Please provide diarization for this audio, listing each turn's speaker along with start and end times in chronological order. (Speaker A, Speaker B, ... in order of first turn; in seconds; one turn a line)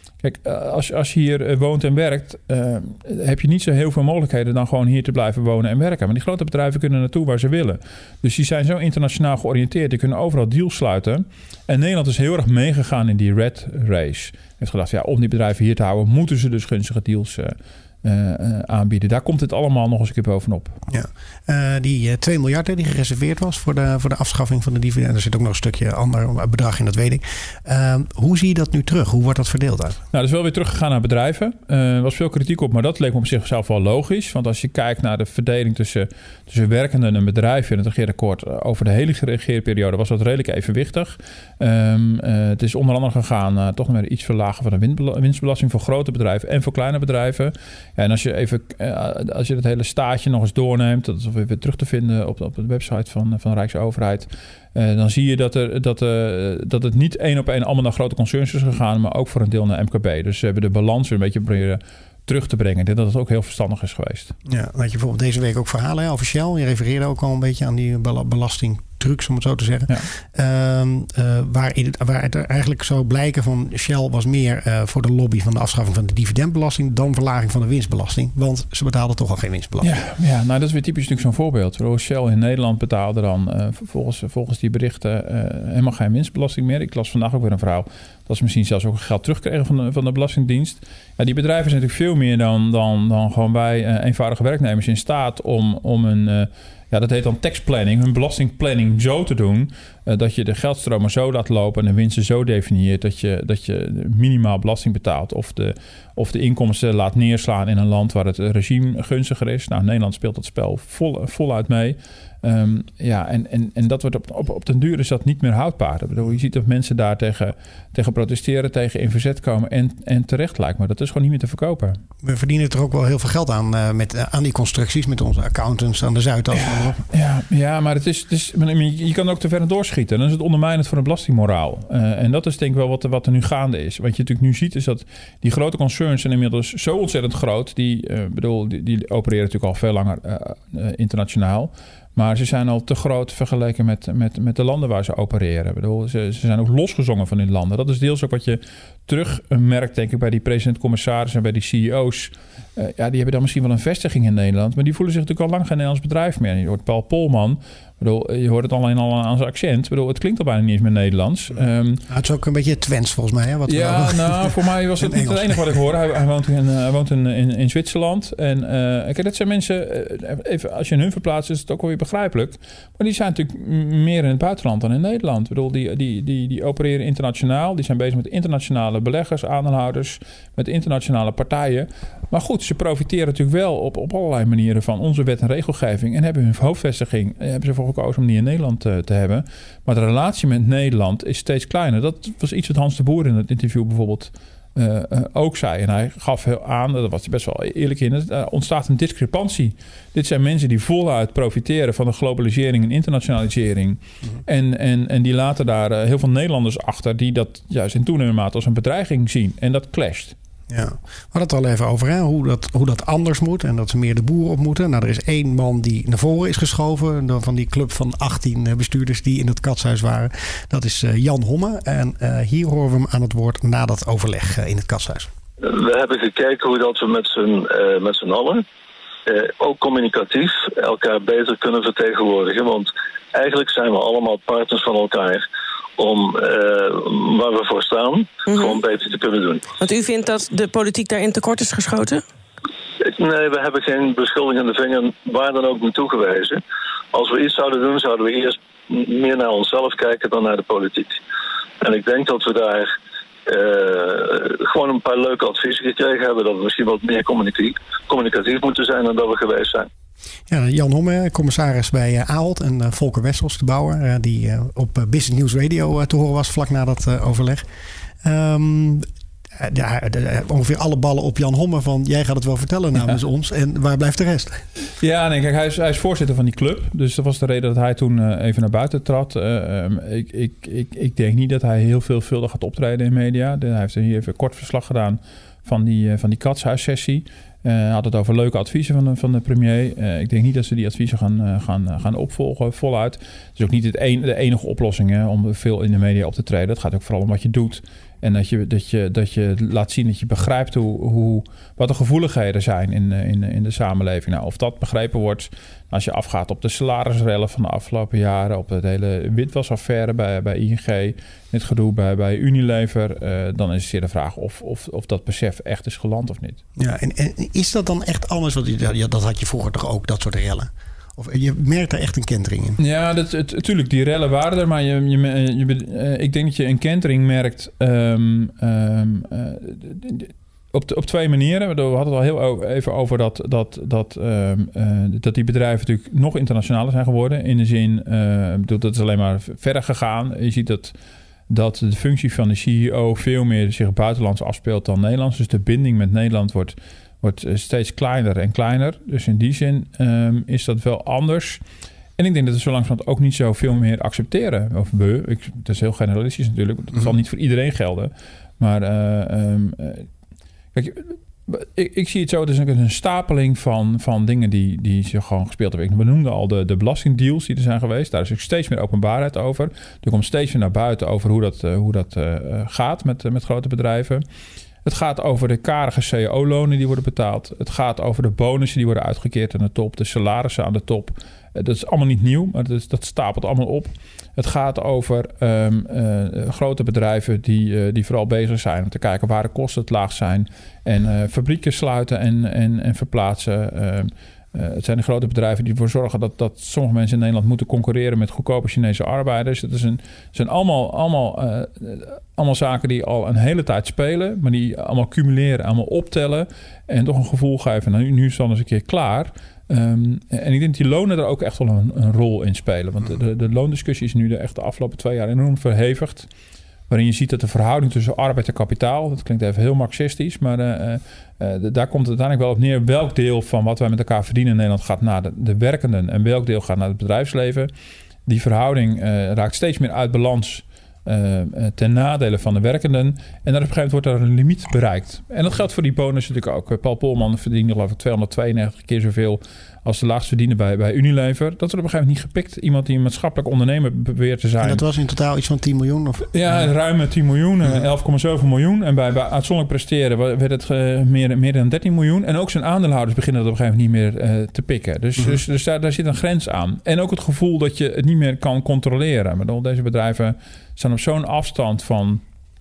Speaker A: 0.2-20.8
Speaker B: 20.9-30.0
Speaker A: 30.1-64.3
Speaker B: 64.5-79.9
Speaker A: 79.8-122.0
Speaker B: 122.2-127.0
Speaker A: 126.6-162.0
Speaker B: 162.1-165.7
Speaker A: 163.7-210.3
Speaker B: 210.7-225.3
Speaker C: 225.6-228.6
Speaker C: 229.2-235.4
Speaker C: 236.0-239.7
Speaker D: 238.5-238.8
Speaker D: 239.8-242.2
Speaker C: 243.0-246.6
Speaker C: 247.1-251.2
Speaker C: 251.8-252.9
Speaker C: 253.5-259.9
Speaker B: 260.5-267.6
Speaker B: 268.2-269.1
Speaker B: 269.6-274.6
Speaker A: 275.0-316.6
Speaker B: 316.8-322.8
Speaker A: 322.8-340.9
Speaker A: 341.5-351.6
Speaker A: 352.2-360.1
Speaker A: 360.7-374.2
Speaker A: 374.8-416.3
Speaker A: 416.9-427.7
Speaker A: 428.2-444.8
Speaker B: 444.6-446.6
Speaker A: 446.3-462.2